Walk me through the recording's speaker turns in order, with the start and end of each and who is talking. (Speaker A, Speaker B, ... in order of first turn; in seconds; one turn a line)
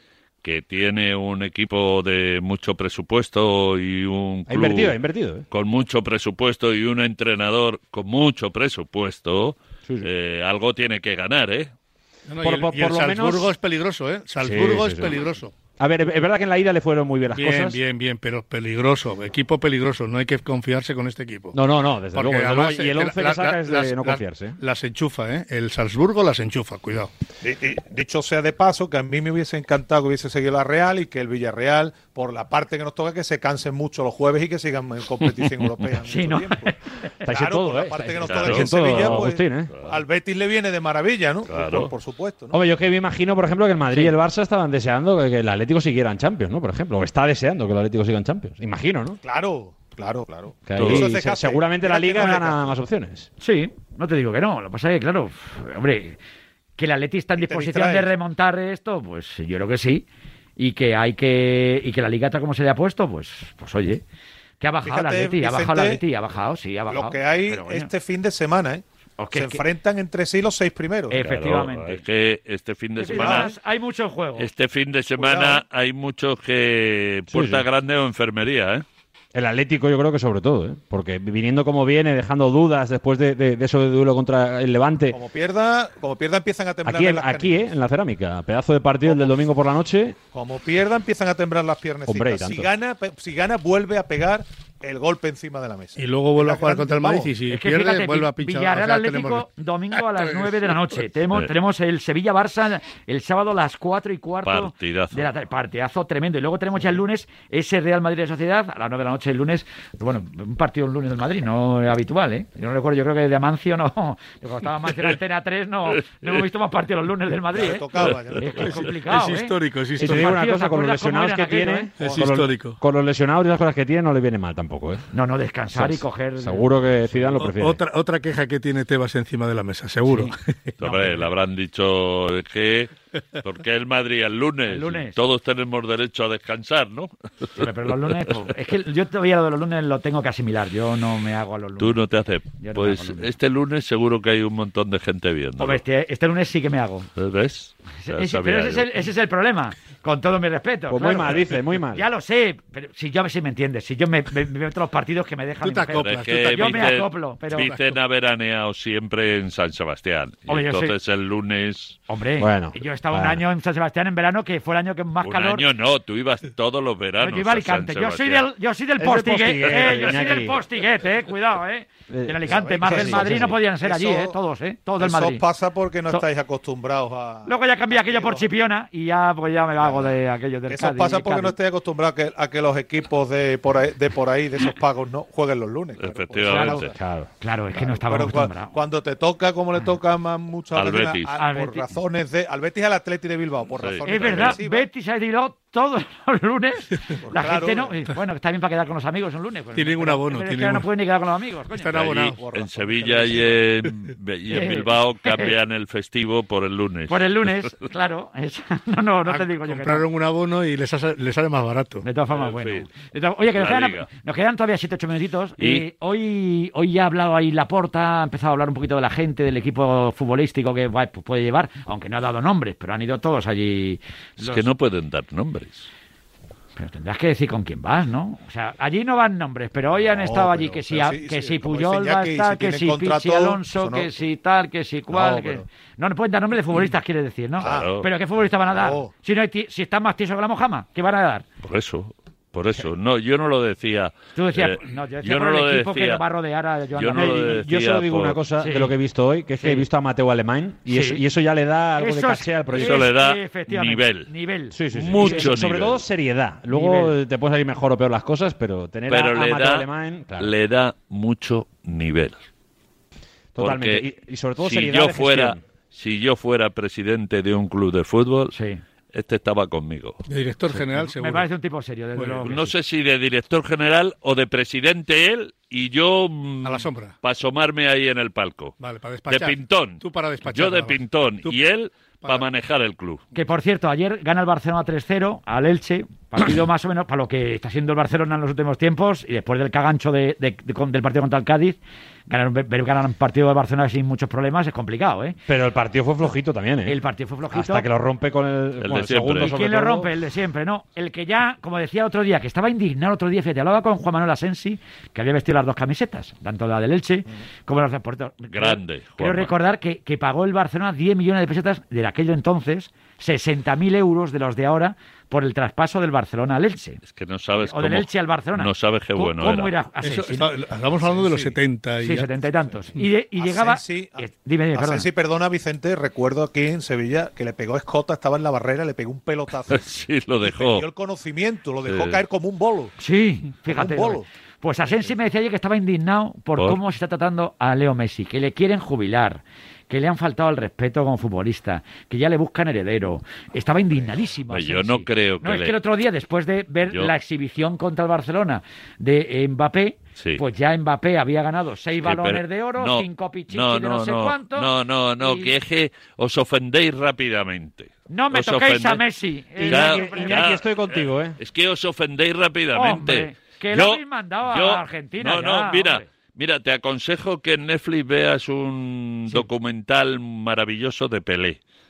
Speaker A: 0.4-5.0
Speaker B: 4.5-5.5
Speaker A: 5.5-11.7
Speaker C: 12.3-15.5
Speaker B: 12.4-13.5
Speaker B: 14.4-15.2
Speaker B: 15.8-17.8
Speaker C: 17.3-21.6
Speaker B: 21.5-24.6
Speaker C: 22.1-27.1
Speaker D: 27.4-36.8
Speaker E: 36.1-37.2
Speaker B: 37.2-39.7
Speaker D: 37.3-42.6
Speaker A: 38.2-40.0
Speaker A: 41.5-41.9
Speaker B: 42.5-49.2
Speaker D: 49.2-52.7
Speaker B: 50.7-53.3
Speaker A: 50.8-51.1
Speaker E: 53.4-56.2
Speaker E: 56.8-60.1
Speaker D: 57.4-58.1
Speaker E: 60.6-64.0
Speaker E: 64.6-67.9
Speaker D: 64.8-66.0
Speaker D: 66.9-71.2
Speaker E: 69.2-69.6
Speaker E: 71.1-72.0
Speaker A: 71.2-73.5
Speaker E: 73.0-74.5
Speaker D: 73.1-73.5
Speaker A: 74.4-78.8
Speaker D: 75.2-75.6
Speaker B: 77.3-77.7
Speaker B: 79.3-85.2
Speaker D: 85.1-87.6
Speaker B: 86.8-90.2
Speaker D: 89.0-89.3
Speaker D: 90.3-97.3
Speaker B: 92.1-92.7
Speaker C: 96.0-99.5
Speaker E: 97.5-121.9
Speaker C: 100.2-100.5
Speaker A: 104.5-105.3
Speaker D: 117.5-118.8
Speaker C: 118.6-120.4
Speaker B: 120.0-125.1
Speaker C: 122.0-122.8
Speaker E: 125.1-127.5
Speaker B: 125.7-127.8
Speaker C: 127.5-130.4
Speaker E: 130.1-131.3
Speaker A: 130.8-138.4
Speaker E: 134.7-135.2
Speaker E: 137.6-142.0
Speaker A: 141.8-145.8
Speaker E: 142.6-143.3
Speaker E: 145.6-147.1
Speaker A: 147.2-148.9
Speaker E: 148.0-157.8
Speaker B: 150.9-152.1
Speaker C: 155.6-157.1
Speaker A: 155.9-162.0
Speaker E: 160.5-160.9
Speaker E: 162.1-165.7
Speaker B: 162.4-163.4
Speaker A: 165.2-168.5
Speaker E: 167.2-175.4
Speaker B: 169.0-170.6
Speaker B: 172.1-173.6
Speaker D: 172.5-174.4
Speaker D: 175.0-178.5
Speaker E: 177.5-181.6
Speaker D: 179.8-180.1
Speaker D: 180.7-186.9
Speaker A: 186.0-186.9
Speaker E: 186.5-186.9
Speaker B: 186.9-187.3
Speaker E: 187.4-188.7
Speaker D: 187.7-194.9
Speaker A: 190.7-191.3
Speaker E: 191.4-191.9
Speaker A: 193.8-194.6
Speaker E: 194.1-202.0
Speaker D: 197.2-198.0
Speaker C: 199.7-200.9
Speaker C: 201.7-202.4
Speaker D: 201.9-203.7
Speaker A: 202.5-207.7
Speaker E: 204.5-205.5
Speaker E: 207.1-210.1
Speaker C: 209.2-212.1
Speaker E: 212.0-224.7
Speaker A: 212.3-212.9
Speaker A: 213.6-214.1
Speaker A: 215.6-215.8
Speaker A: 224.4-225.9
Speaker E: 226.8-241.4
Speaker D: 230.0-234.1
Speaker D: 235.1-235.7
Speaker D: 237.6-237.9
Speaker A: 237.6-238.1
Speaker D: 238.7-239.1
Speaker A: 241.6-246.2
Speaker E: 244.3-247.6
Speaker A: 247.0-248.4
Speaker B: 247.1-253.1
Speaker E: 248.6-248.9
Speaker E: 249.5-249.9
Speaker E: 250.9-251.2
Speaker E: 252.0-255.5
Speaker A: 252.7-254.3
Speaker B: 254.7-260.5
Speaker A: 254.9-256.0
Speaker E: 256.7-257.2
Speaker A: 259.1-259.9
Speaker A: 260.4-262.4
Speaker B: 263.6-265.6
Speaker A: 263.6-264.0
Speaker A: 264.6-268.5
Speaker E: 268.5-268.8
Speaker A: 269.1-270.2
Speaker C: 270.3-271.5
Speaker E: 270.7-272.7
Speaker C: 272.2-272.5
Speaker A: 272.4-278.8
Speaker C: 276.6-277.1
Speaker C: 278.8-281.6
Speaker A: 279.3-283.2
Speaker E: 283.3-295.4
Speaker B: 295.5-297.0
Speaker E: 296.9-297.9
Speaker B: 297.5-300.1
Speaker A: 298.8-299.5
Speaker E: 299.4-317.0
Speaker A: 308.5-309.5
Speaker A: 317.1-319.8
Speaker E: 317.6-320.5
Speaker C: 320.0-322.3
Speaker D: 321.0-321.6
Speaker E: 322.0-325.1
Speaker D: 323.4-332.9
Speaker A: 329.7-330.9
Speaker A: 331.8-332.2
Speaker E: 333.0-355.5
Speaker D: 333.6-334.3
Speaker A: 344.5-345.8
Speaker A: 350.2-350.4
Speaker A: 352.0-359.0
Speaker E: 358.1-360.4
Speaker B: 359.6-361.4
Speaker A: 359.6-371.6
Speaker E: 362.7-366.1